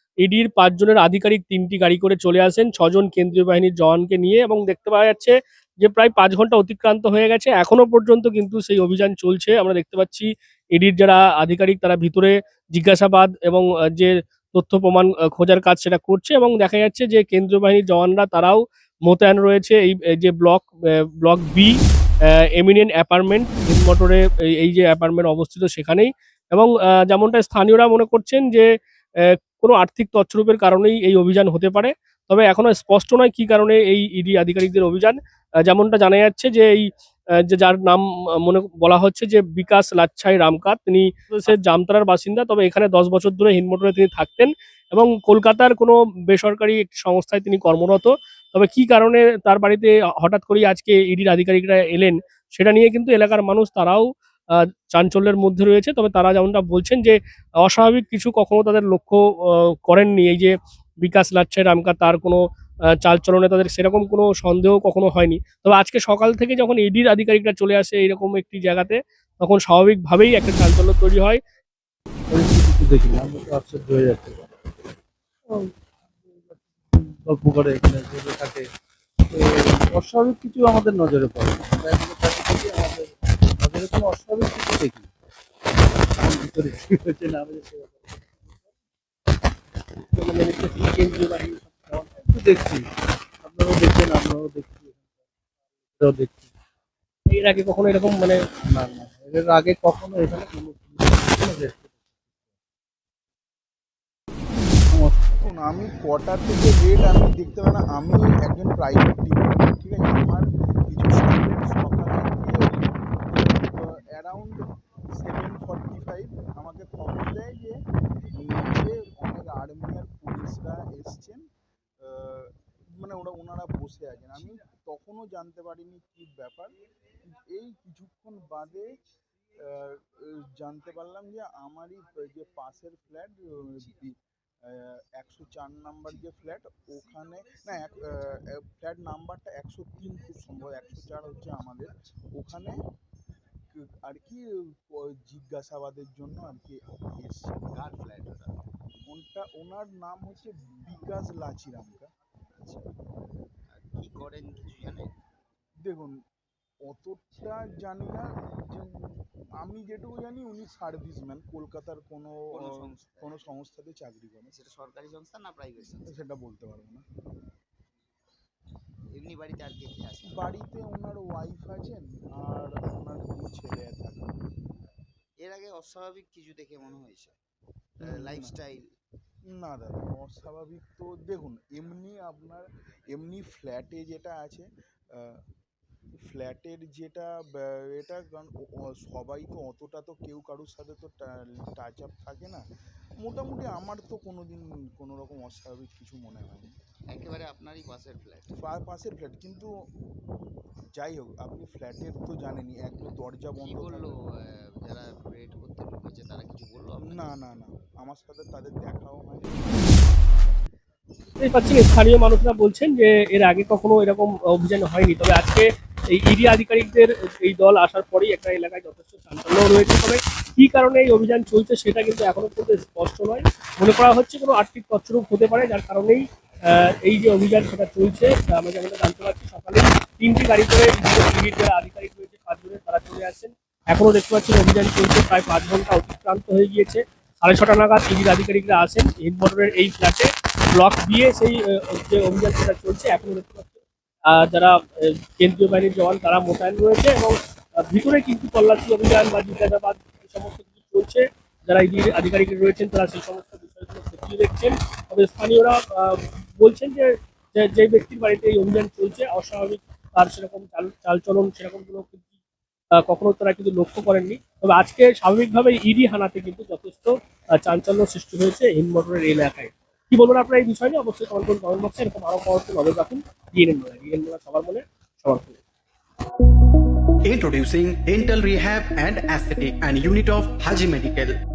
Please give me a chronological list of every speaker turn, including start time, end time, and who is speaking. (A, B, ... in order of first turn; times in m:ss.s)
0:00.2-0:21.7 A
0:22.6-0:28.7 A
0:29.3-0:36.9 A
0:37.5-0:54.1 A
0:54.9-1:02.4 A
1:03.0-1:11.4 A
1:12.3-1:14.4 B
1:17.0-1:18.6 B
1:19.3-1:25.1 B
1:26.2-1:28.2 B
1:30.1-1:32.3 A
1:32.3-1:32.8 B
1:33.4-1:35.0 B
1:36.0-1:36.4 B
1:37.3-1:38.4 A
1:38.6-1:41.9 B
1:45.3-1:54.6 C
1:55.2-1:57.8 C
1:58.4-2:01.4 C
2:02.0-2:06.7 C
2:07.3-2:08.9 C
2:09.6-2:22.8 C
2:23.7-2:27.7 C
2:27.7-2:28.6 D
2:29.1-2:32.1 C
2:32.6-2:32.9 D
2:33.7-2:35.1 D
2:35.8-2:36.2 C
2:36.9-2:42.5 C
2:42.5-2:43.4 D
2:43.2-2:44.5 C
2:44.5-2:46.2 D
2:46.0-2:47.0 C
2:49.1-2:50.5 D
2:50.3-2:54.3 C
2:55.4-2:57.3 D
2:58.0-2:58.9 D
2:58.0-2:58.6 C
2:59.6-3:04.6 C
3:06.3-3:12.6 C
3:13.2-3:16.7 C
3:17.1-3:18.6 D
3:18.6-3:19.7 C
3:20.9-3:24.1 C
3:23.0-3:27.2 D
3:27.0-3:30.5 C
3:31.3-4:22.3 A
4:23.0-4:35.6 A
4:37.3-4:41.3 E